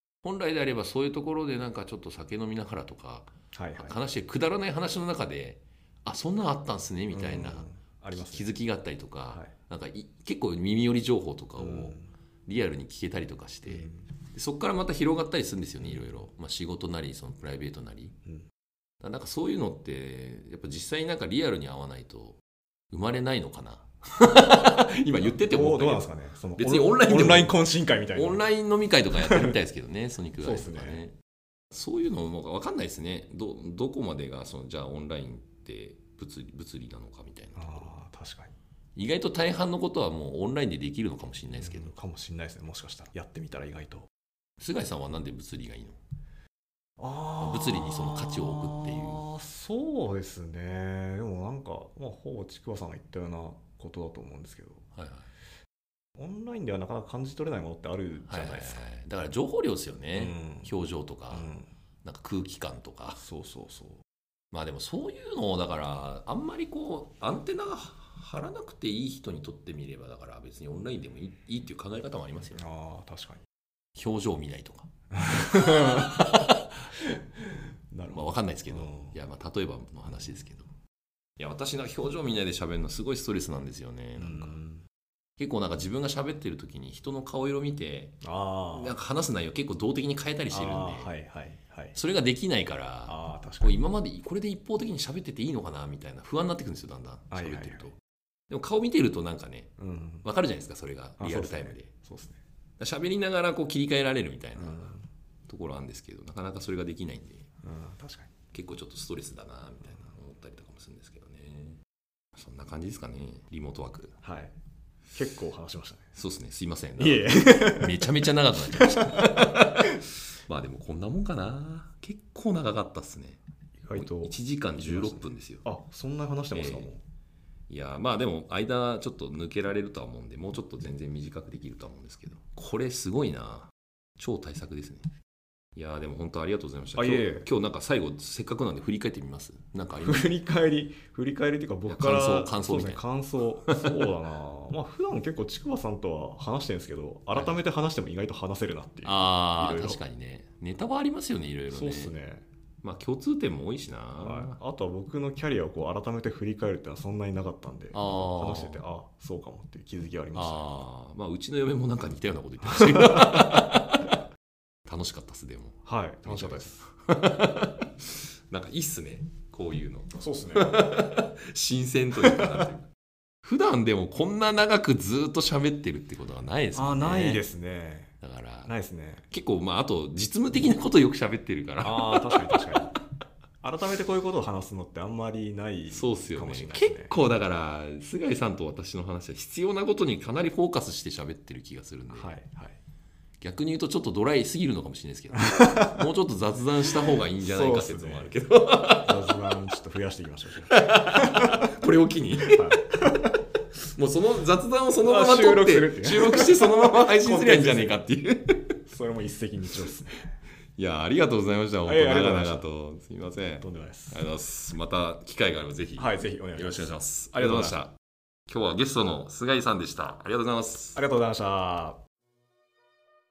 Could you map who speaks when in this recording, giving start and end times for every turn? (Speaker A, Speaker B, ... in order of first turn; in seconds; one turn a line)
Speaker A: 0.2-18.2
Speaker B: 3.5-4.0
Speaker B: 7.1-8.5
Speaker B: 11.6-12.1
Speaker B: 13.7-14.1
Speaker B: 15.8-16.3
Speaker A: 19.0-22.4
Speaker A: 22.9-27.6
Speaker B: 25.2-28.5
Speaker A: 28.1-31.1
Speaker B: 29.2-29.6
Speaker B: 30.4-31.0
Speaker A: 31.7-37.9
Speaker B: 37.5-38.5
Speaker A: 39.0-42.0
Speaker B: 41.5-44.1
Speaker A: 44.6-46.0
Speaker B: 47.0-54.8
Speaker A: 47.4-49.2
Speaker A: 55.0-55.3
Speaker B: 56.2-58.8
Speaker A: 58.3-61.5
Speaker B: 60.1-60.7
Speaker B: 61.3-61.7
Speaker A: 62.0-63.2
Speaker B: 63.2-64.0
Speaker A: 64.5-72.7
Speaker B: 72.6-73.4
Speaker A: 74.0-76.8
Speaker B: 75.1-76.2
Speaker B: 77.0-79.2
Speaker A: 78.1-80.7
Speaker A: 81.4-84.6
Speaker B: 84.2-84.8
Speaker A: 85.4-88.2
Speaker B: 88.2-88.9
Speaker A: 88.7-91.1
Speaker B: 90.5-92.0
Speaker A: 92.0-98.0
Speaker B: 93.1-93.9
Speaker B: 97.3-97.9
Speaker A: 98.5-99.7
Speaker B: 99.8-100.2
Speaker A: 100.2-101.9
Speaker B: 101.2-102.4
Speaker A: 102.8-104.9
Speaker B: 104.6-105.0
Speaker A: 105.5-107.5
Speaker B: 107.6-108.3
Speaker A: 108.5-111.8
Speaker A: 112.4-114.1
Speaker B: 114.2-114.5
Speaker B: 115.1-116.1
Speaker A: 116.2-123.4
Speaker B: 117.0-118.1
Speaker B: 118.7-119.9
Speaker B: 123.8-127.0
Speaker A: 123.9-125.7
Speaker A: 126.5-126.9
Speaker A: 127.7-135.1
Speaker A: 135.8-140.4
Speaker B: 137.0-137.5
Speaker B: 140.0-150.0
Speaker A: 141.9-143.0
Speaker A: 147.3-147.6
Speaker A: 149.0-152.1
Speaker B: 151.7-152.4
Speaker A: 152.8-154.6
Speaker B: 154.2-160.8
Speaker A: 157.9-158.8
Speaker A: 160.3-164.1
Speaker B: 162.7-163.3
Speaker A: 164.9-172.9
Speaker B: 165.8-166.9
Speaker B: 170.1-170.8
Speaker B: 172.2-172.7
Speaker A: 173.4-177.4
Speaker B: 176.7-178.1
Speaker A: 178.2-178.7
Speaker B: 178.7-179.2
Speaker A: 179.3-182.9
Speaker B: 181.8-182.9
Speaker B: 183.6-187.2
Speaker A: 185.9-192.4
Speaker B: 192.1-192.8
Speaker A: 193.4-199.5
Speaker B: 195.5-195.9
Speaker B: 197.4-198.3
Speaker B: 199.0-201.7
Speaker A: 200.7-203.3
Speaker B: 202.4-203.3
Speaker A: 203.9-208.6
Speaker B: 205.0-208.0
Speaker B: 208.9-210.3
Speaker A: 210.8-217.9
Speaker B: 211.9-212.7
Speaker B: 213.6-214.2
Speaker B: 216.0-217.8
Speaker A: 218.5-221.0
Speaker B: 220.9-222.0